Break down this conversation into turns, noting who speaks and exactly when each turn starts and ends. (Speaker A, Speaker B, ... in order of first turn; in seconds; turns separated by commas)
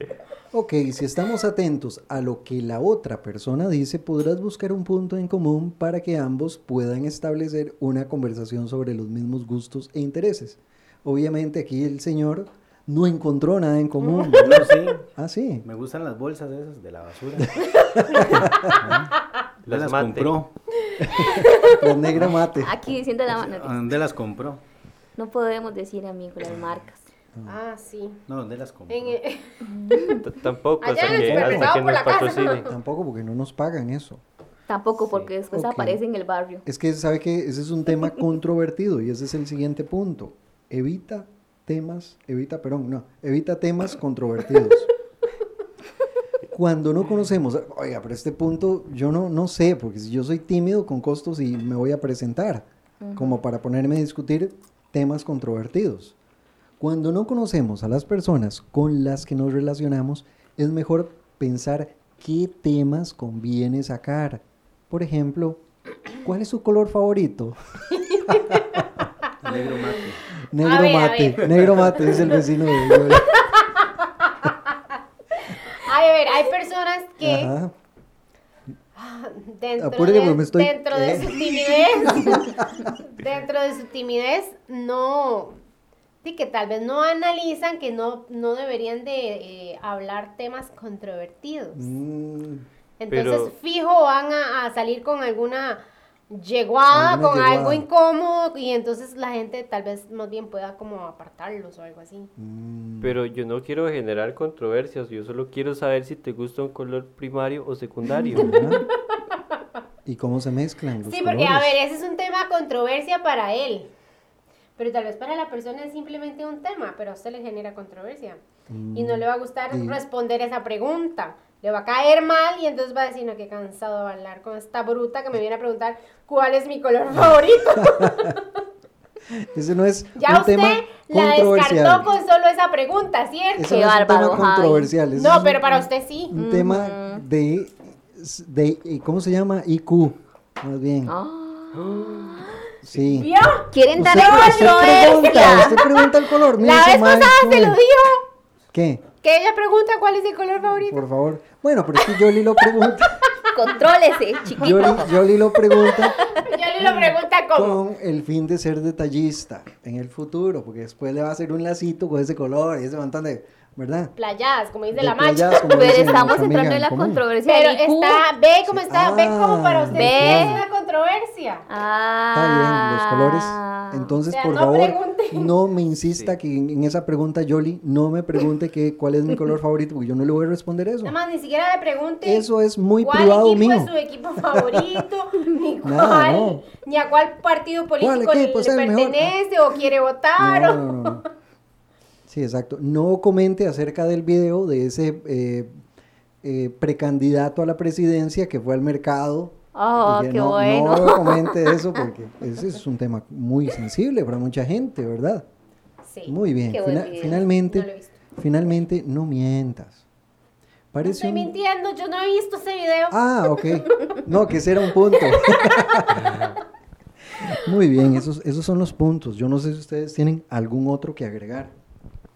Speaker A: 0.5-15.6, Speaker B: 14.0-14.6, Speaker C: 14.3-15.1, Speaker C: 15.6-17.6, Speaker A: 17.4-18.9, Speaker B: 17.9-18.8, Speaker C: 18.3-19.1, Speaker D: 19.7-20.4, Speaker C: 19.7-20.5, Speaker B: 20.8-21.9, Speaker A: 21.0-22.7, Speaker E: 22.4-23.8, Speaker C: 23.3-24.6, Speaker E: 25.2-27.1, Speaker B: 27.4-28.2, Speaker C: 28.3-29.2, Speaker B: 28.9-29.6, Speaker E: 29.7-30.2, Speaker D: 30.1-32.7, Speaker B: 30.8-32.8, Speaker C: 31.1-31.8, Speaker A: 32.6-34.2, Speaker E: 34.7-36.6, Speaker A: 35.5-36.0, Speaker A: 36.6-44.9, Speaker A: 46.5-56.1, Speaker E: 53.0-53.4, Speaker A: 56.8-65.6, Speaker A: 66.2-68.9, Speaker B: 67.9-68.8, Speaker C: 69.4-70.2, Speaker A: 70.5-73.5, Speaker B: 70.6-77.5, Speaker C: 71.4-72.1, Speaker A: 77.2-77.7, Speaker B: 79.0-85.6, Speaker A: 79.8-82.9, Speaker B: 86.2-91.8, Speaker A: 91.7-92.6, Speaker B: 93.0-102.3, Speaker D: 93.1-93.5, Speaker A: 96.9-97.8, Speaker A: 102.4-103.2, Speaker D: 103.0-108.5, Speaker A: 108.3-108.9, Speaker B: 108.5-109.8, Speaker A: 110.0-111.8, Speaker B: 111.0-113.9, Speaker B: 114.8-118.4, Speaker A: 118.7-120.0, Speaker B: 118.9-128.6, Speaker A: 127.1-128.4, Speaker A: 129.3-132.1, Speaker B: 130.2-133.8, Speaker A: 133.6-141.1, Speaker E: 133.6-134.9, Speaker B: 135.1-136.3, Speaker E: 136.3-137.2, Speaker E: 141.1-142.6, Speaker D: 141.7-142.5, Speaker A: 142.8-143.3, Speaker B: 143.1-148.2, Speaker E: 143.7-145.8, Speaker A: 143.9-147.8, Speaker A: 148.7-149.0, Speaker B: 149.2-151.0, Speaker A: 150.7-153.3, Speaker B: 152.0-153.7, Speaker E: 153.5-155.2, Speaker B: 154.5-154.8, Speaker A: 154.5-164.1, Speaker B: 155.8-157.8, Speaker B: 164.2-166.0, Speaker A: 164.9-167.2, Speaker E: 165.6-168.3, Speaker B: 167.4-171.6, Speaker A: 168.7-170.6, Speaker E: 169.9-170.6, Speaker E: 171.7-174.1, Speaker A: 172.3-181.2, Speaker B: 174.3-175.5, Speaker B: 181.0-182.4, Speaker A: 182.2-185.0, Speaker B: 183.0-191.2, Speaker A: 185.8-186.6, Speaker A: 188.0-189.3, Speaker A: 190.4-191.2, Speaker A: 192.3-195.8, Speaker A: 196.4-205.4, Speaker E: 199.7-201.9, Speaker B: 206.1-206.3, Speaker A: 206.3-210.0, Speaker E: 206.7-207.4, Speaker B: 207.2-208.2, Speaker A: 210.9-211.5, Speaker B: 211.0-214.1, Speaker A: 213.1-216.3, Speaker B: 215.3-216.0, Speaker D: 216.1-216.6, Speaker A: 217.3-221.7